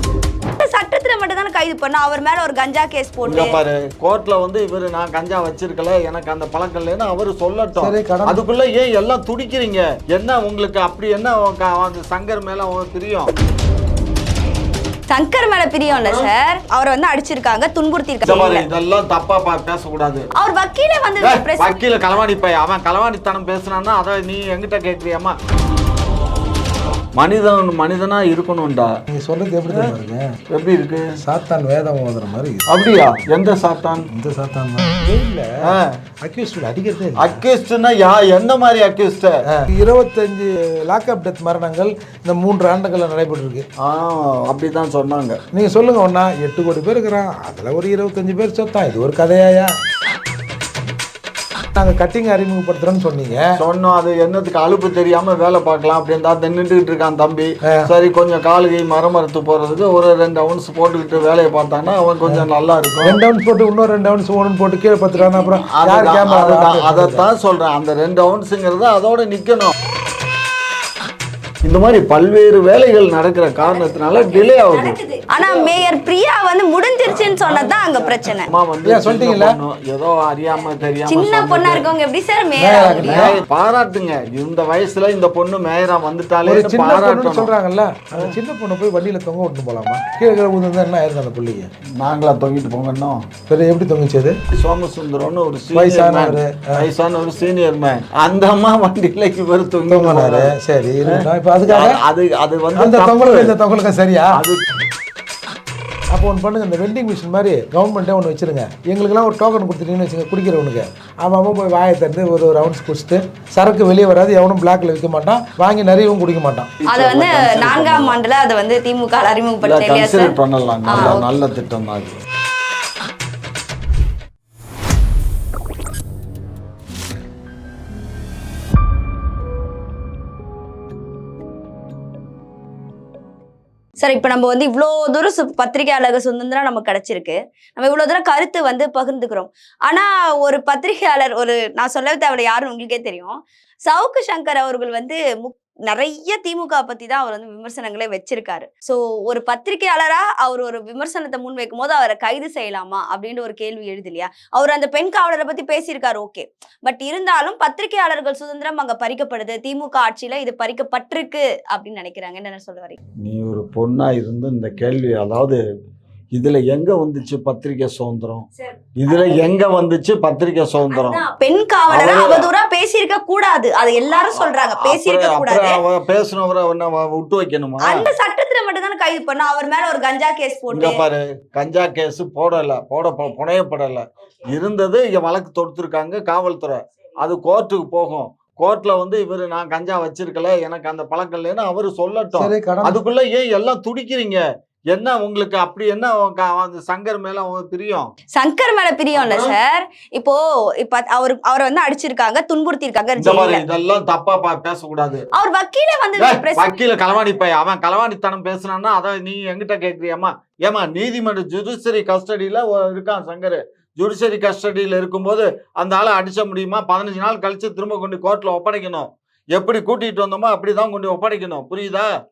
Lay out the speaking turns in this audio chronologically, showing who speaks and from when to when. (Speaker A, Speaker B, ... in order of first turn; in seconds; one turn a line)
Speaker A: 0.5-3.6
Speaker B: 3.3-13.3
Speaker C: 7.8-8.4
Speaker A: 15.1-18.6
Speaker B: 15.9-16.3
Speaker B: 18.2-20.3
Speaker A: 20.3-21.8
Speaker B: 21.2-25.4
Speaker B: 27.2-28.9
Speaker C: 29.1-30.3
Speaker B: 29.7-29.9
Speaker B: 30.5-31.0
Speaker C: 31.2-32.9
Speaker B: 32.7-34.1
Speaker C: 34.1-37.4
Speaker B: 35.6-36.0
Speaker B: 37.2-39.4
Speaker C: 39.5-43.6
Speaker B: 43.8-45.4
Speaker C: 45.5-49.7
Speaker C: 51.7-53.6
Speaker B: 53.5-63.2
Speaker C: 63.0-67.2
Speaker A: 65.1-65.7
Speaker B: 65.8-69.7
Speaker B: 71.6-75.8
Speaker A: 73.6-78.5
Speaker B: 77.3-81.9
Speaker C: 78.8-79.5
Speaker A: 81.1-83.3
Speaker C: 82.6-83.4
Speaker B: 83.0-87.5
Speaker C: 86.4-91.7
Speaker B: 92.0-93.2
Speaker C: 93.5-94.4
Speaker B: 94.5-100.5
Speaker C: 95.7-96.9
Speaker C: 99.9-102.0
Speaker B: 101.1-103.5
Speaker C: 102.7-104.4
Speaker B: 104.3-104.6
Speaker C: 106.1-116.7
Speaker B: 116.8-118.2
Speaker A: 116.9-120.3
Speaker B: 119.6-122.2
Speaker A: 120.9-121.2
Speaker A: 134.0-162.9
Speaker B: 163.2-165.6
Speaker B: 166.3-168.4
Speaker A: 168.5-169.4
Speaker B: 169.0-171.2
Speaker A: 170.9-175.8
Speaker B: 171.9-172.5
Speaker B: 174.1-178.1
Speaker A: 177.8-181.0
Speaker B: 180.7-198.1
Speaker C: 192.3-193.0
Speaker A: 198.3-203.6
Speaker B: 199.1-199.5
Speaker B: 203.2-205.3
Speaker A: 205.3-207.2
Speaker B: 206.2-222.1